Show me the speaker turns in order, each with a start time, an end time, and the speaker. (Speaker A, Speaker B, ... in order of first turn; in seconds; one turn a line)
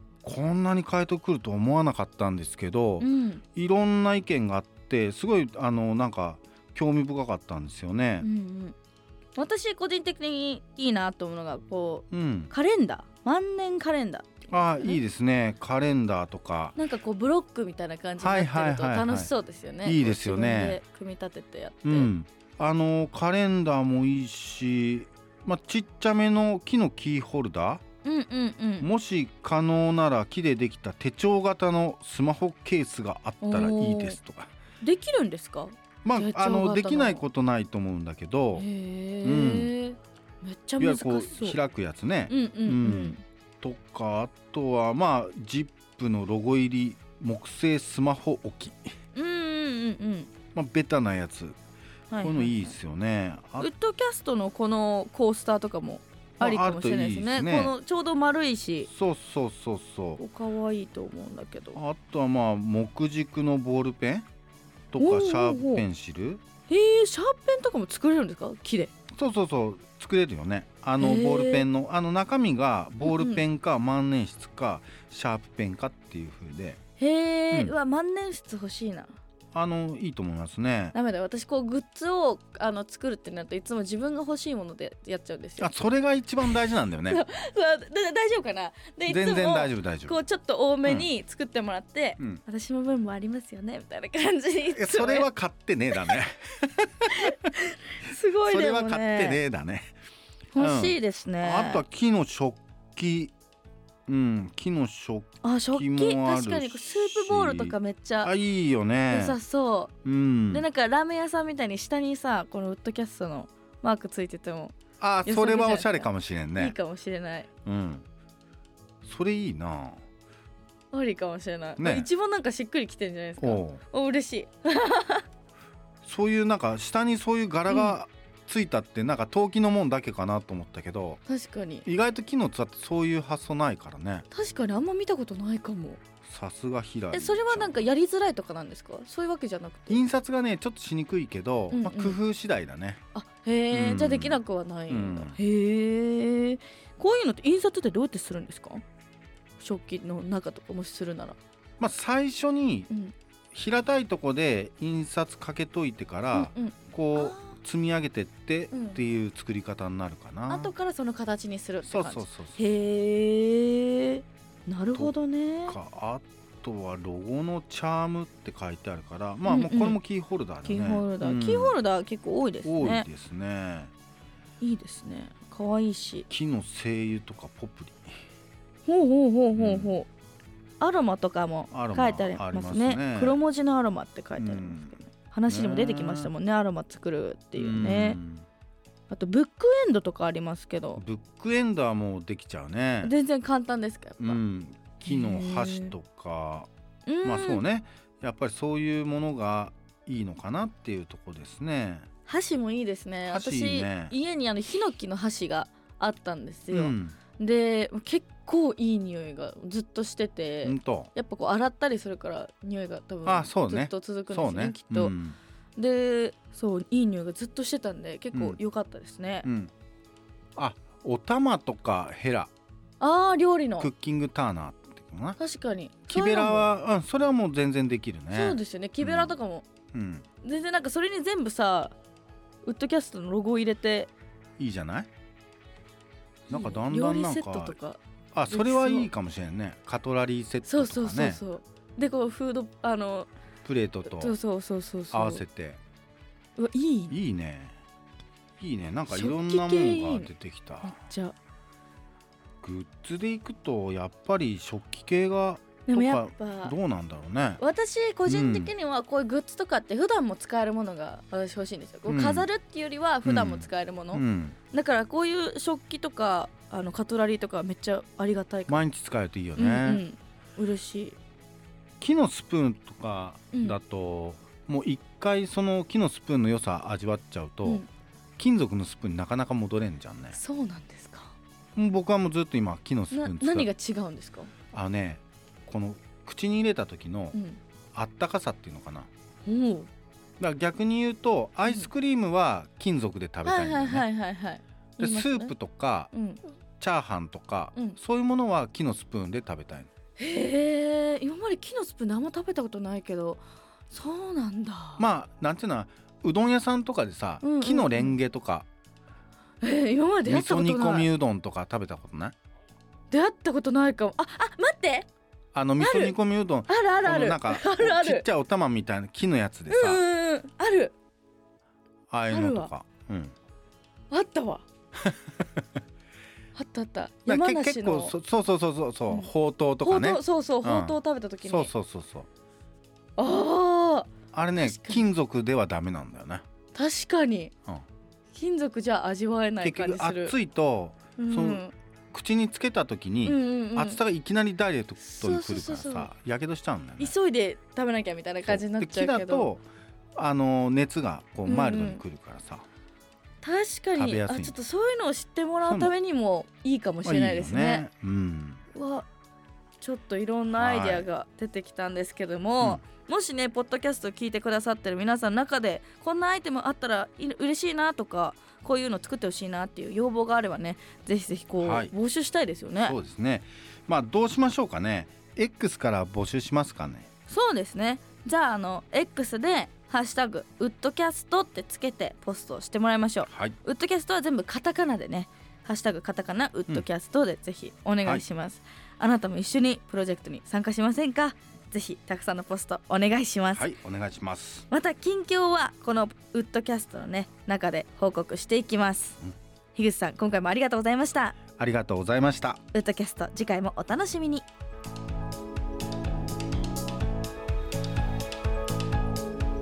Speaker A: 0.2-8.3
Speaker B: 3.0-3.4
Speaker B: 8.2-8.8
Speaker B: 9.4-15.0
Speaker A: 12.1-12.5
Speaker A: 14.5-16.8
Speaker B: 16.8-22.1
Speaker A: 18.2-19.3
Speaker A: 19.8-20.8
Speaker A: 21.8-27.8
Speaker B: 28.0-28.9
Speaker A: 28.8-34.5
Speaker B: 33.4-34.2
Speaker B: 34.8-37.2
Speaker A: 36.0-38.6
Speaker B: 38.5-41.6
Speaker A: 39.2-39.7
Speaker A: 40.8-48.9
Speaker B: 42.3-43.2
Speaker B: 49.1-50.3
Speaker A: 50.5-51.6
Speaker B: 52.1-52.7
Speaker A: 52.2-53.7
Speaker B: 53.6-58.9
Speaker A: 56.4-57.7
Speaker A: 58.9-60.2
Speaker B: 60.2-61.8
Speaker A: 61.7-64.3
Speaker A: 64.9-66.4
Speaker B: 65.0-65.8
Speaker B: 66.7-68.9
Speaker A: 69.1-76.8
Speaker B: 71.0-71.7
Speaker B: 73.0-73.4
Speaker B: 77.0-79.1
Speaker A: 79.5-80.9
Speaker B: 80.9-85.7
Speaker A: 85.6-87.2
Speaker B: 87.1-95.3
Speaker A: 89.1-90.2
Speaker A: 94.7-97.3
Speaker B: 97.1-99.4
Speaker A: 98.4-99.9
Speaker B: 100.5-101.8
Speaker A: 100.6-103.3
Speaker A: 104.1-109.4
Speaker B: 105.4-108.3
Speaker B: 109.1-109.9
Speaker A: 110.0-110.6
Speaker B: 110.5-117.5
Speaker A: 115.0-116.7
Speaker A: 117.6-118.0
Speaker A: 119.0-120.0
Speaker B: 120.9-125.2
Speaker A: 121.8-122.1
Speaker A: 123.4-123.8
Speaker A: 126.0-131.2
Speaker B: 127.7-127.9
Speaker B: 131.2-131.8
Speaker A: 131.8-134.3
Speaker B: 134.3-136.0
Speaker A: 136.2-137.8
Speaker B: 137.1-140.0
Speaker A: 139.9-143.0
Speaker B: 141.7-142.2
Speaker B: 143.1-148.8
Speaker A: 143.7-145.4
Speaker B: 149.6-151.4
Speaker A: 151.8-152.9
Speaker A: 153.5-160.7
Speaker B: 156.3-157.5
Speaker B: 158.7-159.0
Speaker B: 160.5-165.7
Speaker A: 161.8-162.7
Speaker A: 165.7-171.8
Speaker B: 169.4-170.0
Speaker B: 170.6-173.1
Speaker A: 172.6-173.9
Speaker B: 174.6-176.3
Speaker A: 176.3-178.2
Speaker B: 178.8-180.1
Speaker A: 179.6-179.9
Speaker B: 180.8-188.2
Speaker A: 181.7-183.4
Speaker A: 184.4-186.3
Speaker A: 187.6-188.4
Speaker B: 189.1-191.0
Speaker A: 190.9-193.1
Speaker B: 193.0-194.4
Speaker A: 194.2-196.7
Speaker B: 195.0-195.9
Speaker B: 197.1-197.6
Speaker A: 197.2-202.1
Speaker B: 202.3-215.1
Speaker A: 203.3-204.1
Speaker A: 206.7-207.2
Speaker A: 210.6-211.1
Speaker A: 213.2-215.4
Speaker B: 215.8-219.5
Speaker A: 218.3-218.6
Speaker A: 219.4-219.7
Speaker A: 220.6-222.5
Speaker B: 223.0-223.9
Speaker A: 223.8-225.4
Speaker B: 225.4-226.7
Speaker A: 226.1-229.3
Speaker B: 228.3-229.6
Speaker A: 229.9-230.2
Speaker B: 230.4-231.9
Speaker B: 232.6-234.1
Speaker A: 234.6-235.1
Speaker A: 236.5-237.8
Speaker B: 236.5-239.1
Speaker A: 238.3-241.4
Speaker B: 240.6-243.3
Speaker A: 243.6-244.3
Speaker B: 244.1-245.4
Speaker A: 245.1-245.8
Speaker B: 246.6-247.1
Speaker A: 247.1-247.8
Speaker A: 248.6-251.0
Speaker B: 249.1-250.3
Speaker B: 250.8-251.3
Speaker A: 252.6-257.6
Speaker B: 255.8-256.7
Speaker B: 257.6-268.8
Speaker A: 258.2-258.7
Speaker A: 262.1-262.5
Speaker A: 263.2-264.6
Speaker A: 268.7-270.0
Speaker B: 269.6-271.2
Speaker A: 272.0-277.8
Speaker B: 273.5-273.8
Speaker A: 278.4-280.4
Speaker B: 280.3-281.3
Speaker A: 281.8-283.7
Speaker B: 283.1-284.5
Speaker A: 284.7-287.4
Speaker B: 287.3-287.6
Speaker A: 287.9-289.1
Speaker B: 289.4-289.9
Speaker A: 290.4-294.1
Speaker B: 293.4-295.5
Speaker A: 295.0-296.1
Speaker B: 296.1-296.4
Speaker A: 296.8-299.9
Speaker B: 300.2-305.1
Speaker A: 305.0-308.7
Speaker B: 307.4-308.2
Speaker B: 309.6-311.1
Speaker A: 310.2-312.4
Speaker B: 313.1-315.1
Speaker A: 315.5-320.0
Speaker B: 315.8-316.1
Speaker B: 316.7-318.2
Speaker B: 319.7-320.9
Speaker A: 322.1-323.3
Speaker B: 322.3-322.7
Speaker B: 324.1-324.6
Speaker B: 326.5-328.1
Speaker A: 327.3-332.3
Speaker B: 329.8-331.7
Speaker B: 333.2-335.1
Speaker A: 334.3-336.4
Speaker B: 336.7-337.5
Speaker B: 338.3-340.3
Speaker A: 339.6-347.1
Speaker B: 341.2-341.7
Speaker B: 343.2-344.0
Speaker B: 345.0-346.1
Speaker B: 347.0-349.5
Speaker A: 348.4-349.6
Speaker A: 350.2-352.6
Speaker B: 351.4-352.0
Speaker B: 353.4-357.8
Speaker A: 353.9-354.6
Speaker A: 355.6-355.9
Speaker A: 357.0-358.6
Speaker B: 358.7-359.1
Speaker B: 359.8-372.9
Speaker A: 360.5-361.1
Speaker A: 371.6-371.9
Speaker A: 372.8-377.1
Speaker B: 377.3-393.7
Speaker A: 383.3-383.5
Speaker A: 393.5-394.7
Speaker B: 394.7-399.2
Speaker B: 399.7-401.4
Speaker A: 401.6-402.6
Speaker B: 402.7-404.4